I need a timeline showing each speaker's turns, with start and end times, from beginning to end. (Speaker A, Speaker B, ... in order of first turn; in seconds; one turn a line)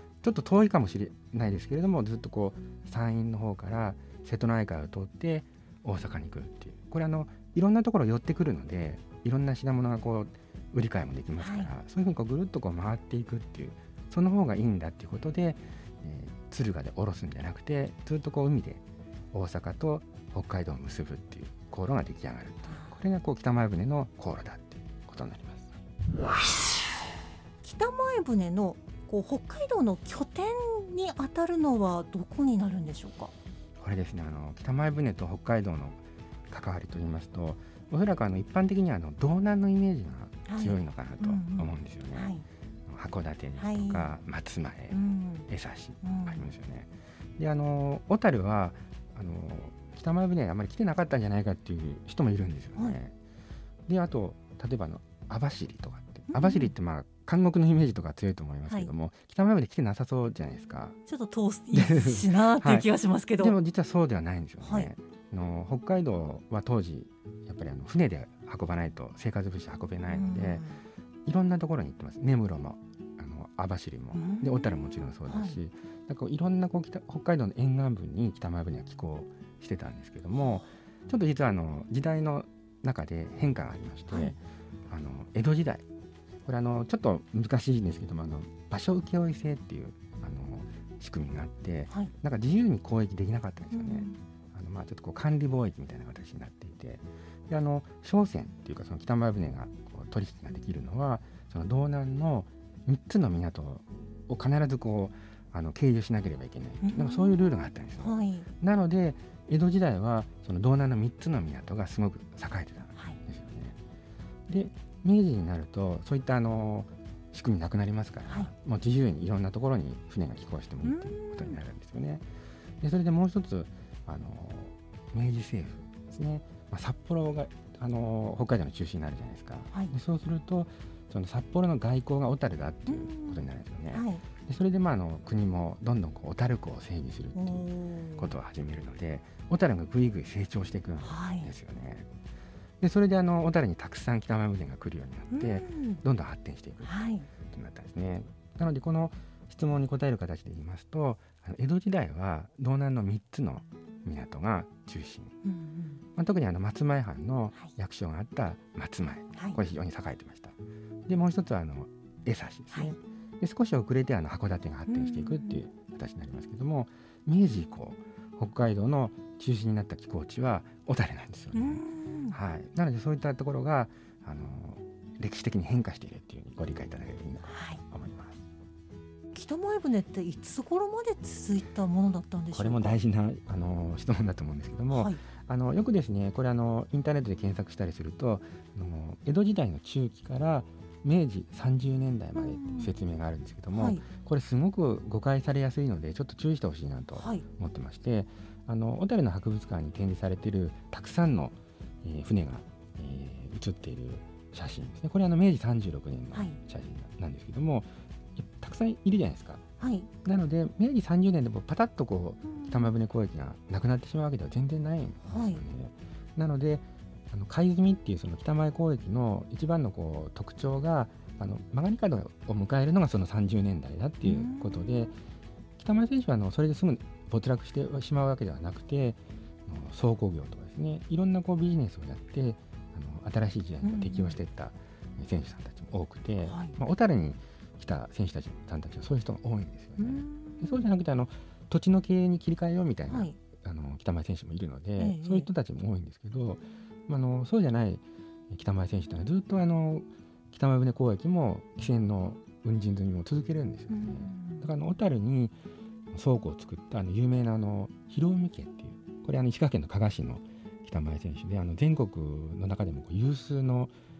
Speaker A: 0.2-25.7
Speaker B: 11.4-11.8
Speaker B: 22.7-22.9
Speaker B: 27.6-33.3
Speaker A: 33.8-42.3
Speaker B: 40.5-42.4
Speaker A: 42.9-53.1
Speaker B: 43.6-44.1
Speaker B: 44.9-45.5
Speaker B: 46.0-46.5
Speaker A: 53.9-61.0
Speaker B: 56.3-56.7
Speaker B: 61.1-63.6
Speaker A: 61.7-70.7
Speaker B: 64.6-64.9
Speaker B: 70.1-70.8
Speaker A: 71.2-84.4
Speaker B: 74.1-75.6
Speaker B: 80.3-80.7
Speaker B: 84.1-84.4
Speaker A: 84.9-85.8
Speaker A: 86.4-113.8
Speaker B: 93.7-94.2
Speaker B: 106.8-108.5
Speaker A: 114.5-122.2
Speaker B: 120.8-121.6
Speaker A: 122.8-142.1
Speaker B: 132.9-134.2
Speaker B: 137.3-138.3
Speaker B: 141.0-141.5
Speaker A: 142.8-155.3
Speaker B: 145.3-146.0
Speaker B: 146.8-147.3
Speaker B: 155.4-156.0
Speaker A: 156.2-160.5
Speaker B: 159.3-159.6
Speaker A: 161.1-178.4
Speaker B: 164.9-165.6
Speaker B: 171.5-172.4
Speaker B: 177.4-177.8
Speaker B: 179.3-183.0
Speaker A: 182.5-209.6
Speaker B: 184.9-185.2
Speaker B: 192.3-192.9
Speaker B: 193.7-194.0
Speaker B: 197.1-197.4
Speaker B: 209.8-210.1
Speaker A: 210.2-225.2
Speaker B: 212.4-212.9
Speaker B: 215.2-215.6
Speaker B: 224.2-225.1
Speaker A: 225.8-255.6
Speaker B: 233.8-234.4
Speaker B: 236.4-236.8
Speaker B: 240.0-240.9
Speaker B: 243.1-243.3
Speaker B: 245.0-245.5
Speaker B: 253.9-254.7
Speaker A: 256.1-263.9